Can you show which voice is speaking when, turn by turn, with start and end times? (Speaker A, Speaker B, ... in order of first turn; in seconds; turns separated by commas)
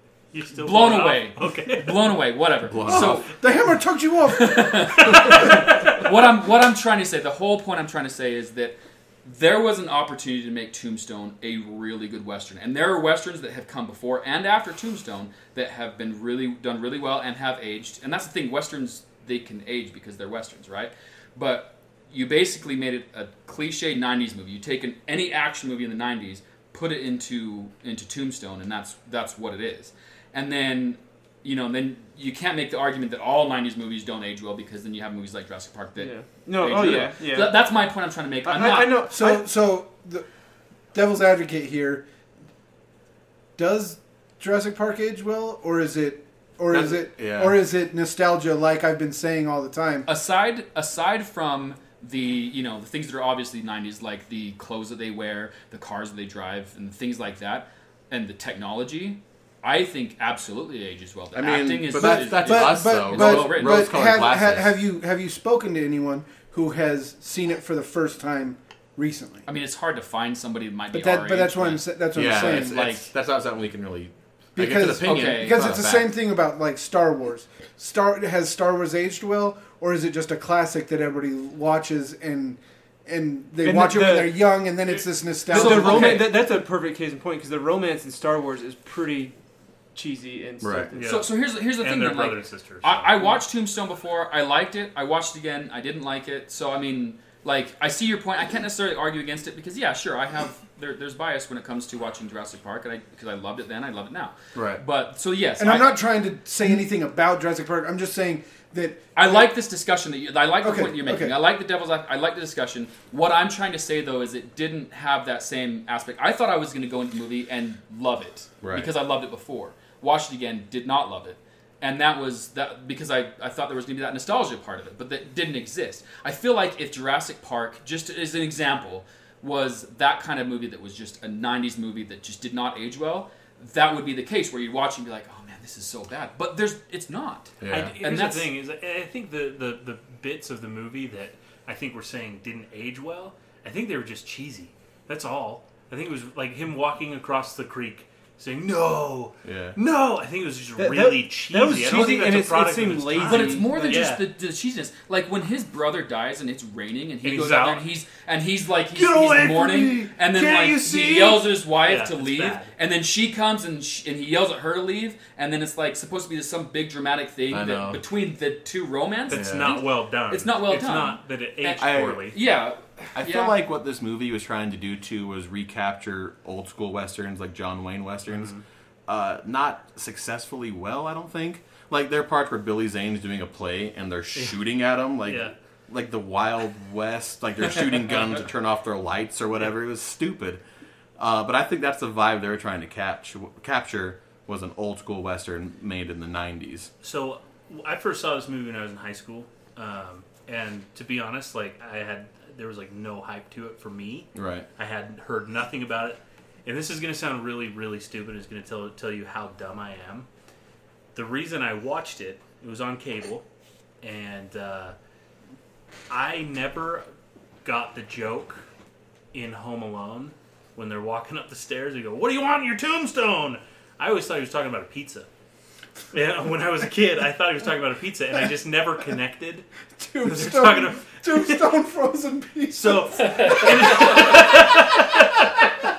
Speaker A: 0.3-2.1, Speaker B: 0.6-3.3, Speaker C: 2.7-3.3, Speaker D: 2.8-5.5, Speaker B: 4.3-39.0, Speaker A: 5.1-5.6, Speaker E: 36.0-37.6, Speaker E: 38.4-39.5, Speaker D: 39.1-40.2, Speaker D: 40.9-42.0, Speaker D: 43.6-50.1, Speaker C: 46.7-47.6, Speaker B: 50.1-64.0, Speaker C: 61.4-64.7, Speaker D: 62.0-69.5, Speaker B: 69.5-73.1, Speaker D: 70.9-72.9, Speaker C: 72.1-76.1, Speaker D: 74.6-86.3, Speaker B: 75.0-75.8, Speaker E: 83.6-84.6, Speaker E: 85.5-89.3, Speaker B: 85.5-86.3, Speaker E: 89.9-91.2, Speaker C: 90.6-90.9, Speaker A: 91.0-93.3, Speaker B: 91.0-106.0, Speaker C: 104.5-104.8, Speaker D: 105.6-109.5, Speaker B: 109.2-138.5, Speaker D: 110.6-111.4, Speaker C: 118.6-118.9, Speaker C: 137.6-138.0, Speaker A: 137.7-154.2, Speaker C: 149.4-149.8, Speaker E: 150.8-154.1, Speaker B: 153.2-173.6, Speaker A: 157.2-157.9, Speaker E: 158.9-161.5, Speaker A: 161.8-162.7, Speaker C: 167.5-168.0, Speaker A: 169.3-172.4, Speaker C: 169.3-169.8, Speaker C: 171.8-172.4, Speaker C: 173.2-178.6, Speaker A: 178.3-178.6, Speaker C: 179.1-190.6, Speaker A: 185.2-185.5, Speaker C: 191.2-196.9, Speaker A: 197.0-210.3, Speaker C: 204.3-204.7, Speaker A: 211.2-213.4, Speaker A: 214.0-214.9, Speaker A: 216.1-217.0, Speaker A: 217.6-218.6, Speaker A: 219.3-225.3, Speaker A: 226.1-229.7, Speaker D: 230.0-234.4, Speaker A: 230.2-231.6, Speaker A: 232.7-235.6, Speaker B: 233.9-234.3